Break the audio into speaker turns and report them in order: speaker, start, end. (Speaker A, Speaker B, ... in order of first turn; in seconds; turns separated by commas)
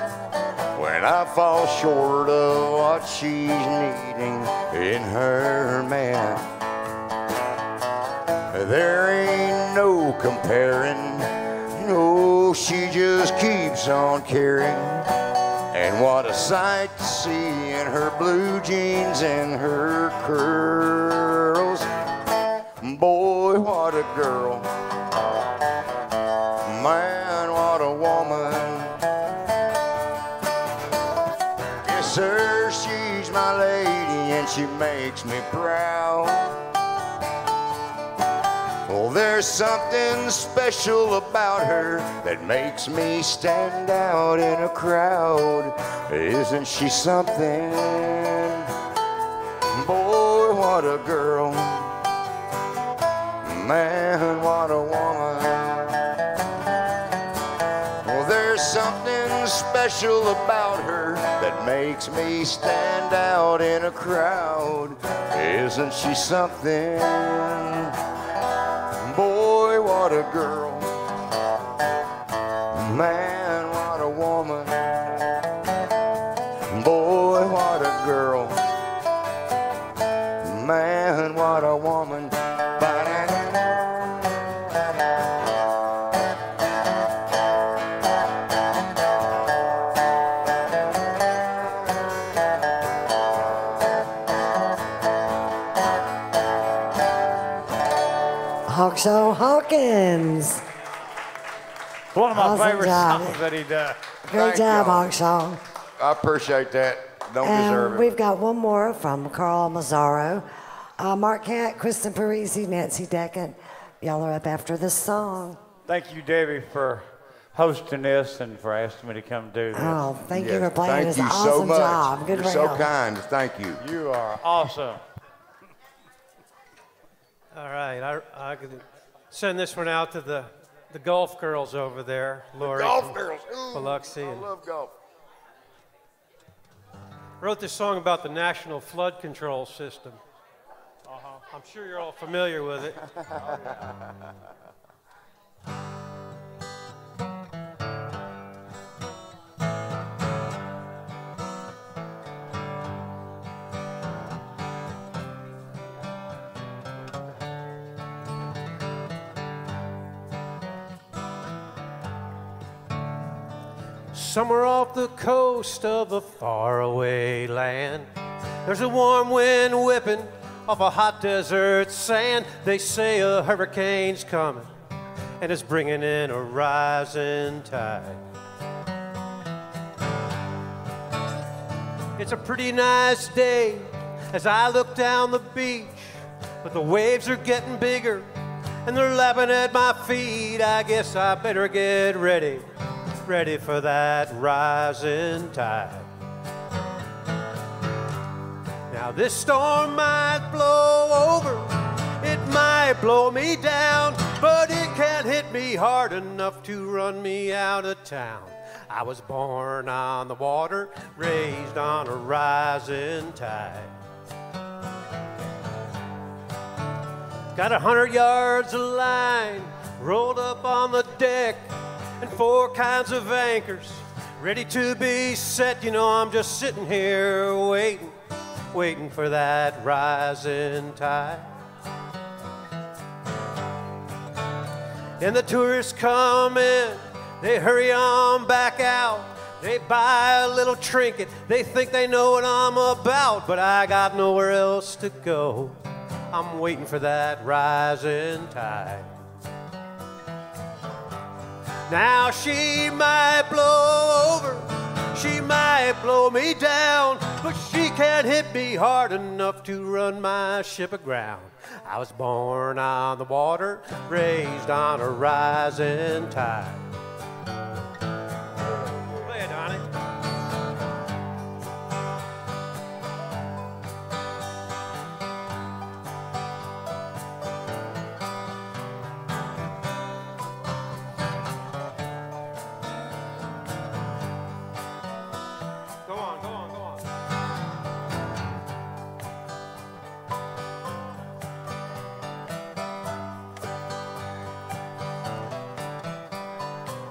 Speaker A: 0.8-6.5, Speaker A: 8.5-15.2, Speaker A: 15.7-21.9, Speaker A: 22.8-24.7, Speaker A: 26.6-29.0, Speaker A: 31.8-36.6, Speaker A: 38.9-48.8, Speaker A: 49.7-52.0, Speaker A: 53.4-56.0, Speaker A: 58.0-68.0, Speaker A: 68.9-71.0, Speaker A: 72.7-75.1, Speaker A: 76.7-78.7, Speaker A: 80.4-84.0, Speaker B: 98.7-100.6, Speaker C: 102.1-104.0, Speaker B: 102.3-103.4, Speaker B: 104.3-105.6, Speaker A: 104.3-105.1, Speaker A: 106.0-108.2, Speaker B: 107.4-110.5, Speaker B: 111.0-115.6, Speaker C: 115.9-120.0, Speaker B: 119.7-122.9, Speaker A: 120.3-123.8, Speaker C: 123.8-125.0, Speaker D: 127.5-133.2, Speaker A: 132.6-134.9, Speaker D: 133.7-134.5, Speaker D: 137.4-140.2, Speaker C: 141.1-141.4, Speaker D: 141.5-143.2, Speaker D: 164.1-168.1, Speaker D: 168.7-174.7, Speaker D: 175.4-178.2, Speaker D: 182.2-188.3, Speaker D: 188.8-192.7, Speaker D: 193.3-196.1, Speaker D: 198.9-213.9, Speaker D: 217.5-228.2, Speaker D: 228.7-231.5, Speaker D: 235.2-245.8, Speaker D: 246.3-249.1, Speaker D: 251.9-266.9, Speaker D: 269.1-269.9, Speaker D: 286.1-287.1